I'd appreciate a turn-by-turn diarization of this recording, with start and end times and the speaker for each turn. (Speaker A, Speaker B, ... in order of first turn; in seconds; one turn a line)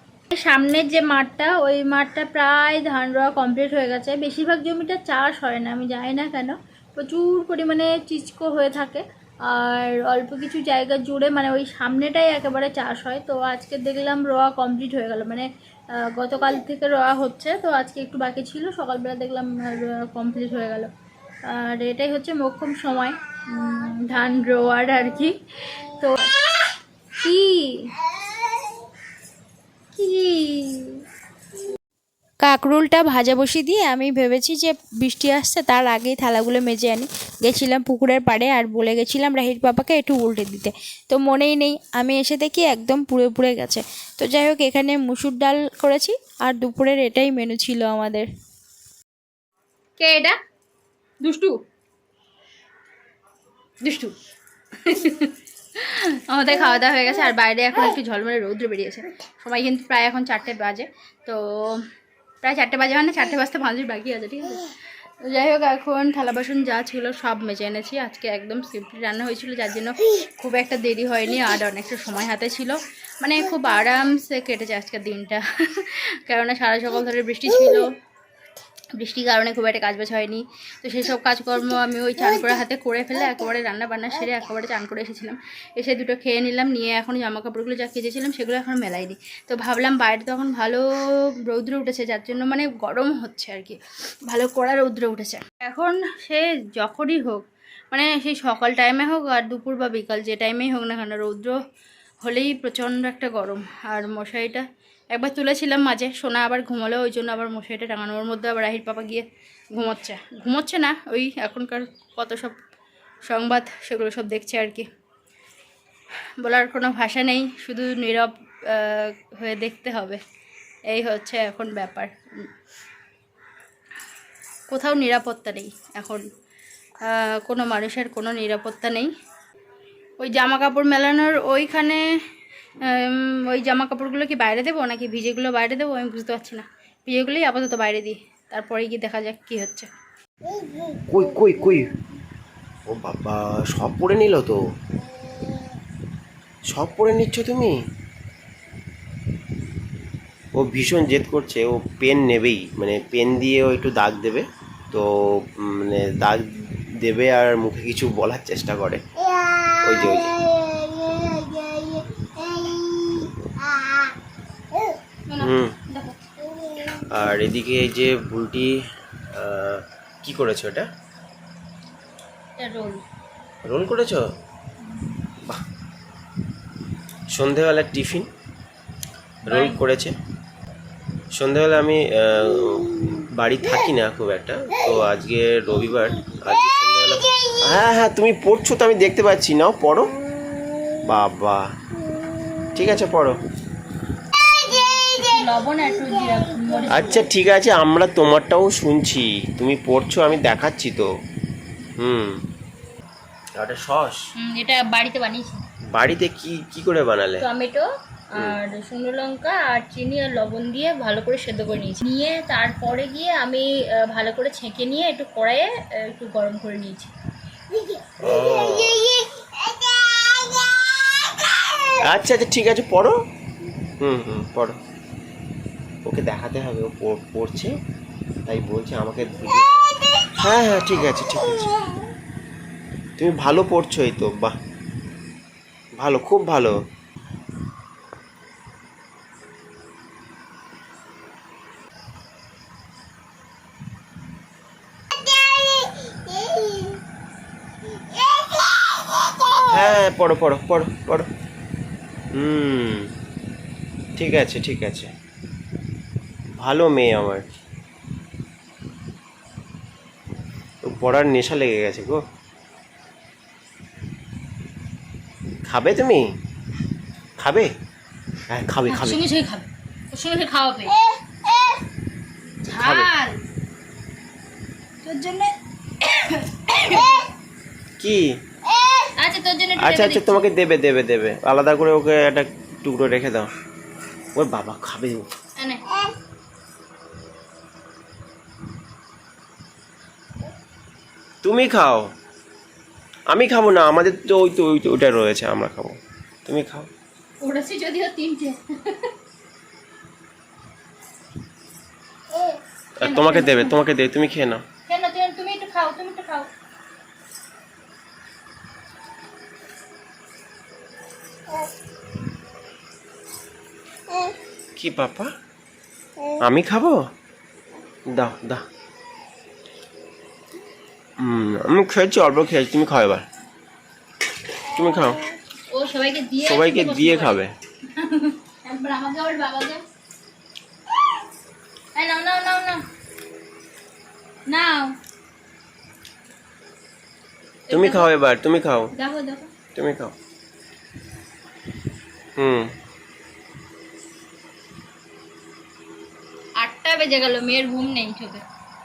Speaker A: 0.3-20.9
Speaker A: 21.5-26.3
Speaker A: 27.2-27.9
Speaker A: 29.9-31.0
Speaker B: 32.4-48.3
Speaker A: 50.0-50.4
Speaker A: 51.2-51.6
Speaker A: 53.8-54.1
Speaker A: 54.8-61.9
Speaker A: 62.4-64.6
Speaker A: 65.2-77.9
Speaker A: 79.0-101.6
Speaker A: 102.2-112.5
Speaker A: 113.2-114.9
Speaker A: 116.4-120.2
Speaker A: 120.9-122.5
Speaker A: 124.7-126.3
Speaker A: 127.0-129.1
Speaker A: 130.2-132.0
Speaker A: 132.8-139.9
Speaker C: 141.1-141.9
Speaker C: 142.9-144.6
Speaker C: 146.7-147.8
Speaker C: 150.6-159.0
Speaker C: 159.8-160.4
Speaker A: 165.3-166.2
Speaker C: 165.4-165.8
Speaker C: 167.1-168.8
Speaker C: 169.3-170.9
Speaker A: 172.6-173.0
Speaker C: 173.6-174.3
Speaker C: 177.3-178.3
Speaker C: 179.4-180.2
Speaker A: 179.5-179.8
Speaker C: 181.3-190.1
Speaker C: 191.0-191.7
Speaker C: 192.7-193.4
Speaker A: 194.7-197.3
Speaker C: 196.9-201.1
Speaker C: 202.0-202.4
Speaker C: 203.6-204.2
Speaker A: 204.4-205.6
Speaker C: 205.9-207.5
Speaker A: 207.4-207.8
Speaker C: 208.3-208.6
Speaker A: 208.4-217.1
Speaker C: 218.2-219.0
Speaker C: 222.0-223.2
Speaker C: 224.0-224.8
Speaker C: 226.1-227.7
Speaker C: 228.4-231.7
Speaker C: 233.2-234.6
Speaker C: 236.0-236.8
Speaker C: 249.7-251.3
Speaker C: 252.3-253.1
Speaker C: 254.2-255.1
Speaker C: 256.6-257.5
Speaker C: 260.8-262.2
Speaker C: 265.6-266.3
Speaker C: 267.4-267.7
Speaker C: 268.5-269.2
Speaker A: 268.9-271.0
Speaker A: 272.6-273.4
Speaker C: 272.8-273.1
Speaker A: 275.0-277.3
Speaker C: 278.0-278.4
Speaker A: 278.8-280.4
Speaker C: 279.8-283.5
Speaker C: 284.3-285.3
Speaker A: 285.6-285.8
Speaker C: 291.4-292.1
Speaker C: 293.3-296.9
Speaker A: 297.4-299.1
Speaker A: 302.3-303.8
Speaker C: 303.0-304.6
Speaker A: 304.9-306.5
Speaker C: 314.8-315.3
Speaker C: 316.4-317.1
Speaker C: 318.1-318.6
Speaker C: 321.2-323.2
Speaker C: 324.7-325.2
Speaker A: 325.7-329.8
Speaker C: 326.4-327.5
Speaker A: 331.9-332.8
Speaker A: 334.5-335.0
Speaker A: 337.7-338.1
Speaker C: 337.7-338.9
Speaker A: 338.9-339.5
Speaker C: 339.7-340.1
Speaker C: 342.4-342.7
Speaker A: 346.6-348.4